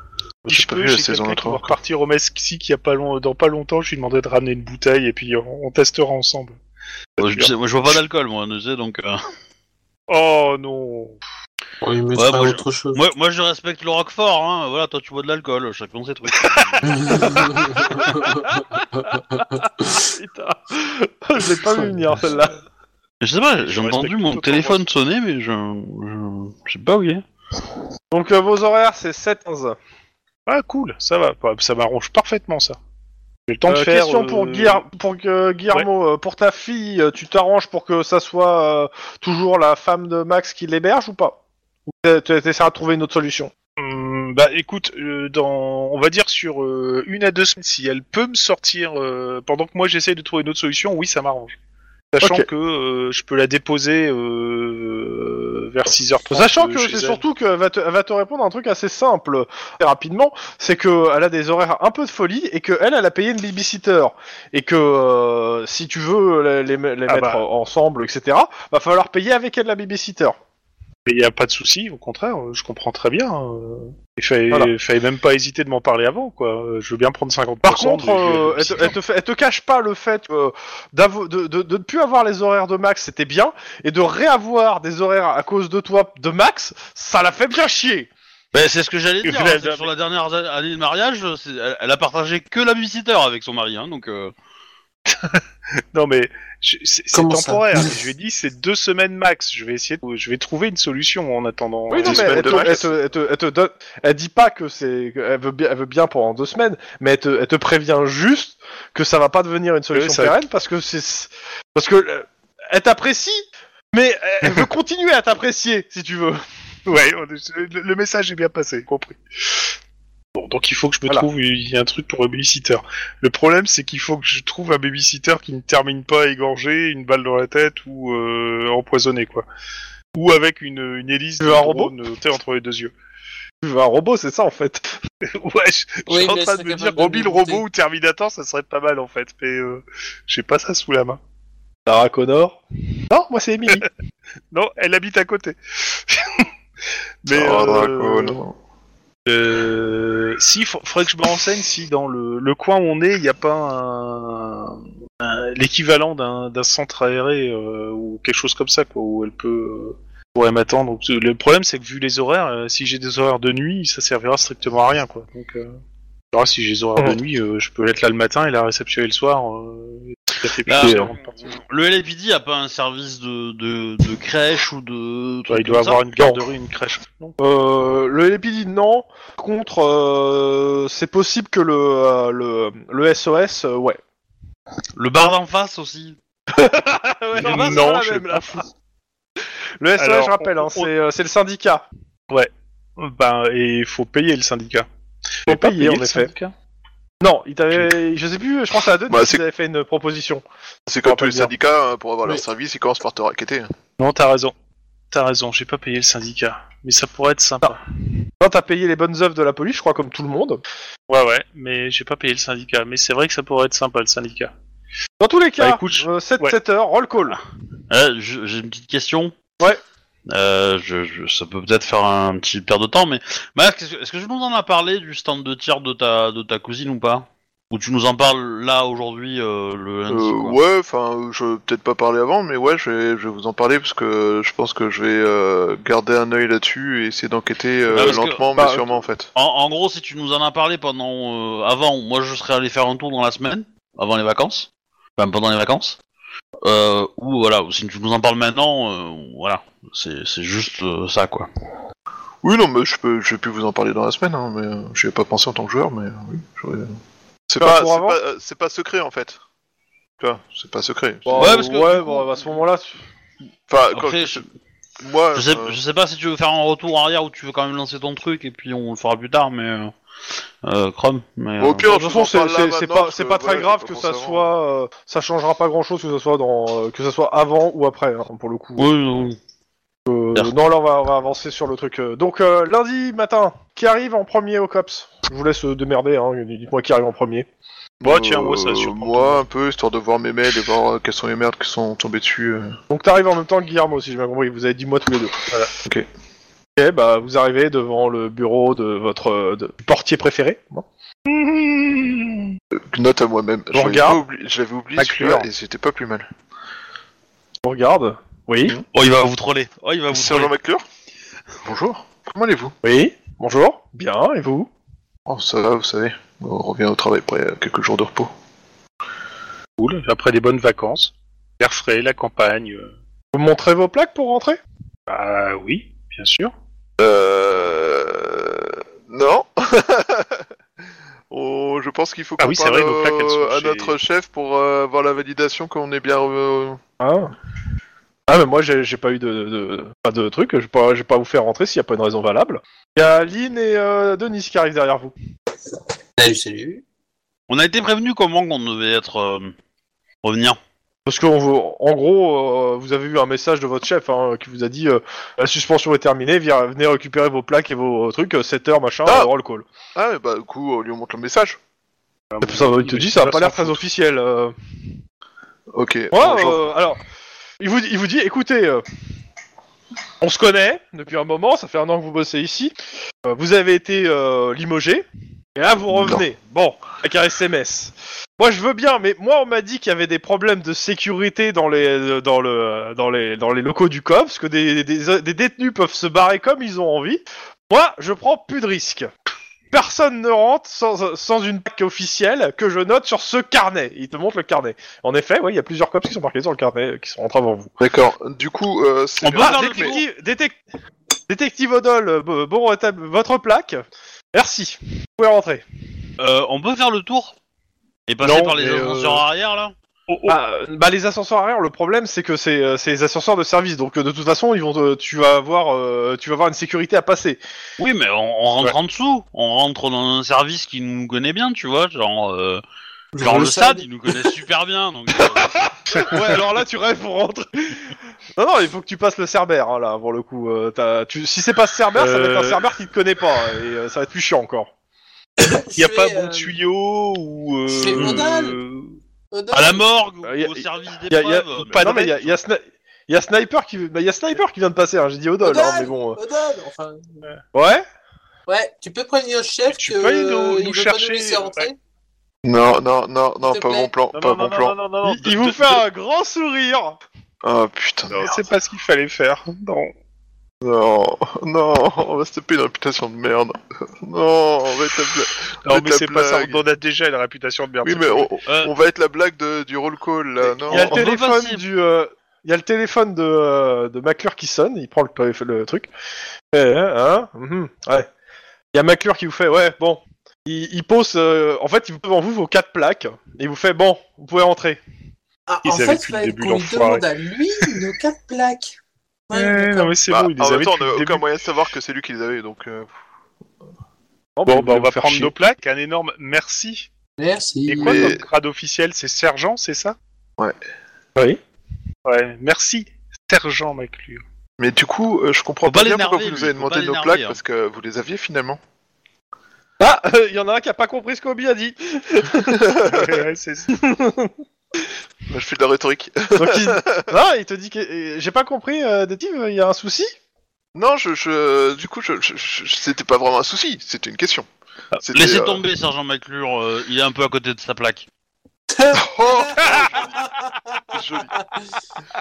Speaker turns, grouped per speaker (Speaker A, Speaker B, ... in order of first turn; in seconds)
Speaker A: 0.5-6.6, 7.2-7.5, 10.1-11.2, 16.4-16.8, 23.7-24.8, 30.5-32.8, 33.5-34.8, 43.8-51.5, 52.1-57.2, 67.1-67.4, 71.0-78.9, 89.2-89.9, 95.9-102.8, 109.9-110.3, 116.8-119.7, 120.3-129.4, 130.1-132.9, 135.2-141.2, 144.5-146.5, 147.2-148.4, 149.2-165.8, 166.3-171.5, 175.5-177.4, 187.4-188.6, 190.0-190.9, 192.3-194.8, 195.4-196.5, 204.0-204.5, 205.1-207.8, 211.1-214.5, 215.6-216.6, 288.0-289.4, 301.2-302.6, 305.0-305.5, 319.8-322.9, 325.1-326.5, 332.4-333.9, 362.3-363.8, 408.2-409.2, 410.1-410.4, 431.9-432.6, 435.8-439.0, 441.7-442.1, 449.7-451.7, 454.1-455.8, 458.1-459.9, 465.6-468.3, 485.6-487.0, 489.3-491.2, 494.5-496.9, 497.7-499.9, 502.0-504.2, 512.8-513.7
Speaker B: 0.5-1.7, 102.0-102.9, 147.3-148.6, 199.1-199.4, 200.9-203.7, 230.1-239.3, 252.4-259.4, 260.2-261.6, 263.7-264.4, 265.0-265.8, 271.6-274.5, 288.0-292.8, 302.7-306.3, 310.1-310.8, 311.6-312.7, 315.3-318.3, 327.0-330.4, 331.3-336.8, 359.9-361.6, 365.7-366.6, 375.9-376.2, 397.8-399.9, 452.4-454.7, 457.4-458.4, 460.6-466.6, 467.8-471.0, 490.1-492.9, 497.8-498.2, 504.6-508.6, 512.5-513.2, 515.3-517.1, 520.7-525.6, 528.9-530.2, 530.9-531.3
Speaker C: 7.2-9.2, 12.1-18.1, 23.2-27.2, 88.5-94.3, 170.6-176.0, 184.9-186.2, 187.4-187.8, 217.9-219.3, 220.3-230.6, 237.9-238.4, 239.3-246.0, 246.6-251.5, 261.4-262.4, 263.9-264.4, 265.3-269.9, 270.6-271.9, 278.8-279.4, 308.9-310.5, 347.5-349.5, 350.2-350.6, 399.2-400.0, 406.2-407.4, 408.1-409.7, 417.8-422.6, 423.2-425.6, 437.9-438.2, 439.5-442.3, 468.5-468.7, 470.7-471.6, 505.6-507.4, 525.1-528.1
Speaker D: 11.8-13.0, 16.8-20.1, 21.7-22.1, 97.1-98.0, 136.1-137.6, 346.2-346.8, 423.1-424.3, 435.4-436.5, 437.7-438.6, 439.3-439.8, 445.4-447.2, 448.5-451.8, 453.4-453.9, 485.5-488.8, 489.3-489.9, 497.2-498.1, 528.7-530.5
Speaker E: 19.2-19.4, 20.0-22.6, 28.1-29.8, 33.7-41.4, 41.9-43.5, 52.2-52.5, 56.3-70.4, 77.6-88.1, 101.9-116.4, 131.4-131.9, 133.6-135.0, 141.8-143.9, 170.8-171.1, 176.2-176.4, 177.4-184.0, 186.5-188.6, 189.8-191.8, 195.5-196.3, 197.2-200.4, 201.0-201.5, 208.4-210.6, 215.2-217.4, 237.9-239.0, 257.6-258.2, 261.2-262.9, 271.9-278.9, 280.1-287.5, 292.9-295.4, 296.8-300.9, 303.7-304.2, 307.6-308.8, 312.8-314.7, 323.3-324.6, 337.0-337.3, 338.3-345.1, 351.1-359.6, 362.4-364.5, 366.1-367.0, 367.6-368.8, 370.2-372.7, 373.2-389.1, 389.7-397.7, 399.3-400.6, 401.3-403.8, 404.3-405.6, 410.3-417.4, 425.9-434.7, 440.2-446.2, 447.5-447.8, 455.0-457.0, 470.6-475.9, 476.5-478.1, 478.7-484.8, 494.4-495.3, 509.8-512.7, 513.7-514.3, 516.3-520.1